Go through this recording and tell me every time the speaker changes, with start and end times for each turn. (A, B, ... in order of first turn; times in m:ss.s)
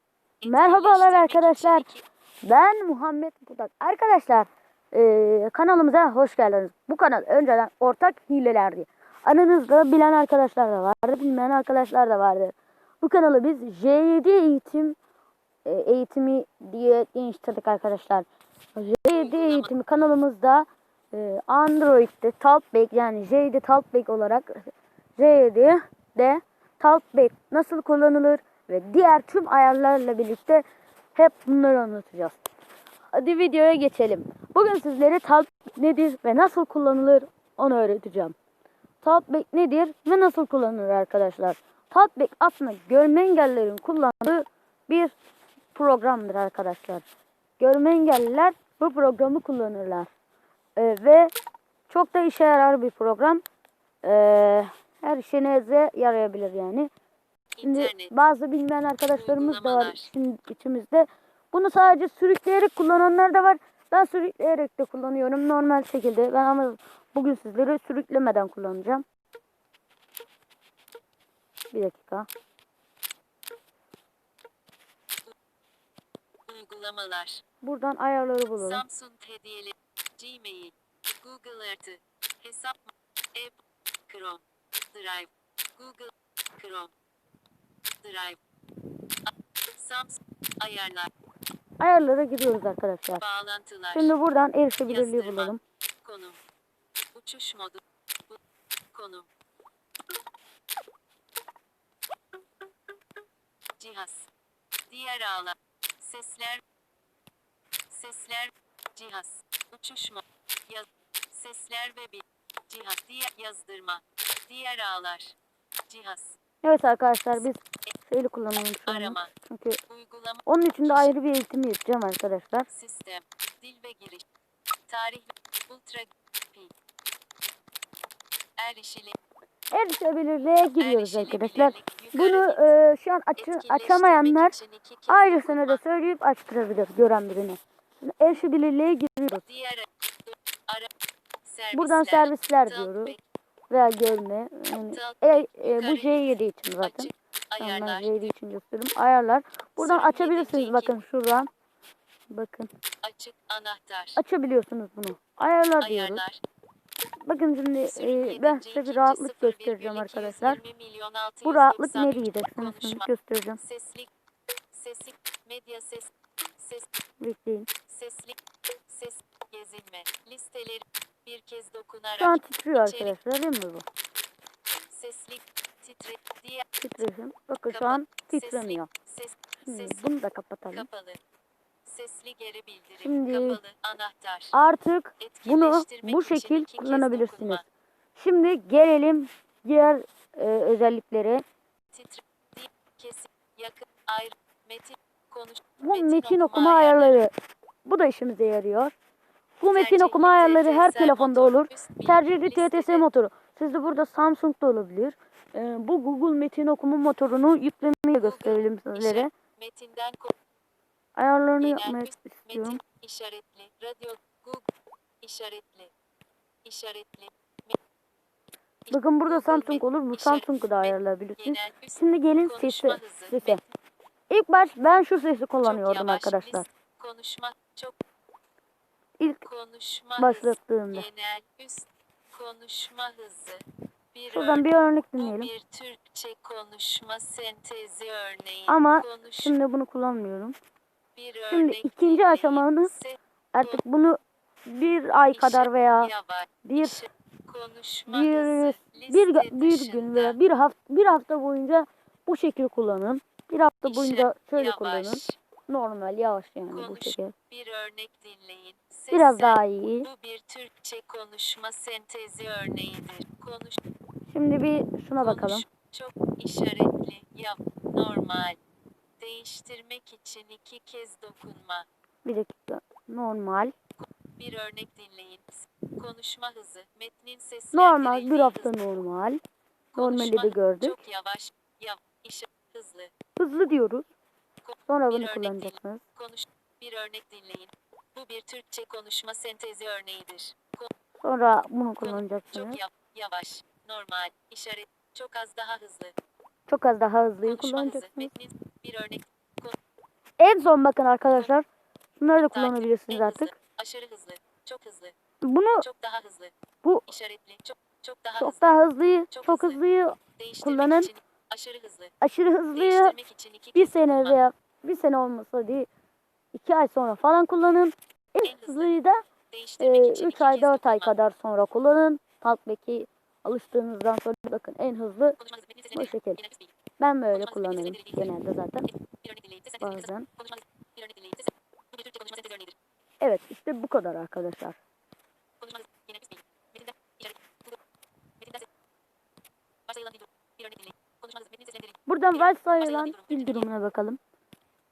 0:00.4-0:02.0 A
0:00.4-0:01.9 B
0:02.4-0:15.0 B
0:15.6-0:32.4 B
0:19.1-0:19.7 A
0:33.1-0:38.4 B
0:39.0-0:45.1 B
0:45.7-0:47.0 B
0:47.6-0:50.1 B
0:50.8-0:51.3 B
0:51.9-0:53.4 B
0:54.0-0:56.9 B
0:57.6-0:58.1 A
0:57.6-1:09.0 B
0:59.1-1:00.1 A
1:11.7-1:12.3 B
1:16.5-1:17.4 A
1:17.6-1:18.8 B
1:18.6-1:26.9 A
1:28.0-1:28.4 A
1:29.7-1:31.1 A
1:31.8-1:33.2 B
1:33.2-1:34.2 A
1:33.9-1:35.6 B
1:34.9-1:36.4 A
1:37.1-1:38.4 A
1:38.9-1:39.3 A
1:43.8-1:44.3 A
1:44.9-1:46.6 A
1:47.9-1:55.4 A
1:55.9-1:56.4 A
1:56.6-1:59.8 B
1:58.9-1:59.3 A
1:59.9-2:01.1 A
2:00.5-2:02.7 B
2:02.7-2:04.2 A
2:04.9-2:06.7 A
2:08.6-2:09.2 A
2:09.7-2:14.6 B
2:10.8-2:12.7 A
2:13.4-2:15.8 A
2:15.1-2:19.4 B
2:19.5-2:20.9 A
2:21.4-2:23.2 A
2:21.7-2:23.2 B
2:23.7-2:31.5 B
2:24.9-2:28.3 A
2:29.8-2:31.0 A
2:32.3-2:32.7 B
2:33.0-2:34.2 A
2:34.2-2:36.2 B
2:35.8-2:36.4 A
2:37.2-2:40.6 B
2:37.9-2:44.1 A
2:41.4-2:43.6 B
2:44.7-2:46.9 A
2:47.2-2:47.7 B
2:47.9-2:53.2 A
2:52.2-2:53.8 B
2:54.9-2:56.7 A
2:56.8-2:58.9 B
2:57.7-3:00.0 A
2:59.7-3:00.9 B
3:00.7-3:01.2 A
3:01.9-3:04.6 A
3:03.0-3:03.6 B
3:04.5-3:07.6 B
3:05.2-3:07.6 A
3:08.2-3:11.4 B
3:11.9-3:17.2 A
3:15.8-3:17.3 B
3:17.8-3:18.9 B
3:19.6-3:29.3 B
3:19.7-3:23.1 A
3:28.2-3:30.4 A
3:31.2-3:32.8 B
3:31.6-3:34.7 A
3:35.2-3:35.9 A
3:36.6-3:37.8 A
3:38.9-3:43.6 A
3:38.9-3:43.6 B
3:44.3-3:46.7 B
3:45.6-3:48.0 A
3:49.4-3:59.5 A
3:50.2-3:51.1 B
3:54.3-3:55.5 B
3:58.7-4:00.6 B
4:01.2-4:03.8 A
4:01.5-4:02.9 B
4:03.5-4:06.1 B
4:05.3-4:10.4 A
4:06.6-4:07.0 B
4:08.1-4:17.3 B
4:13.8-4:15.4 A
4:16.7-4:23.8 A
4:19.1-4:20.1 B
4:24.3-4:25.6 B
4:25.2-4:28.6 A
4:29.2-4:31.9 A
4:32.2-4:33.7 B
4:34.0-4:38.7 A
4:37.7-4:39.4 B
4:39.9-4:43.1 A
4:40.0-4:41.0 B
4:43.4-4:44.1 B
4:44.6-4:50.9 A
4:44.9-4:46.0 B
4:51.2-4:52.8 B
4:52.0-4:56.2 A
4:56.7-4:58.3 B
4:57.4-4:59.8 A
5:00.4-5:01.7 B
5:02.2-5:03.5 B
5:02.4-5:05.2 A
5:05.4-5:05.9 B
5:05.8-5:06.5 A
5:07.1-5:08.8 A
5:08.4-5:11.1 B
5:09.3-5:09.8 A
5:10.4-5:12.1 A
5:12.2-5:13.2 B
5:12.7-5:14.4 A
5:13.8-5:15.9 B
5:16.5-5:19.2 B
5:18.4-5:18.9 A
5:19.5-5:21.1 A
5:19.8-5:25.4 B
5:25.4-5:26.7 A
5:25.9-5:26.4 B
5:27.0-5:28.9 B
5:27.3-5:28.3 A
5:28.9-5:32.8 A
5:29.8-5:30.3 B
5:33.2-5:34.8 B
5:35.6-5:37.8 A
5:38.4-5:38.7 A
5:39.9-5:43.7 A
5:42.1-5:44.2 B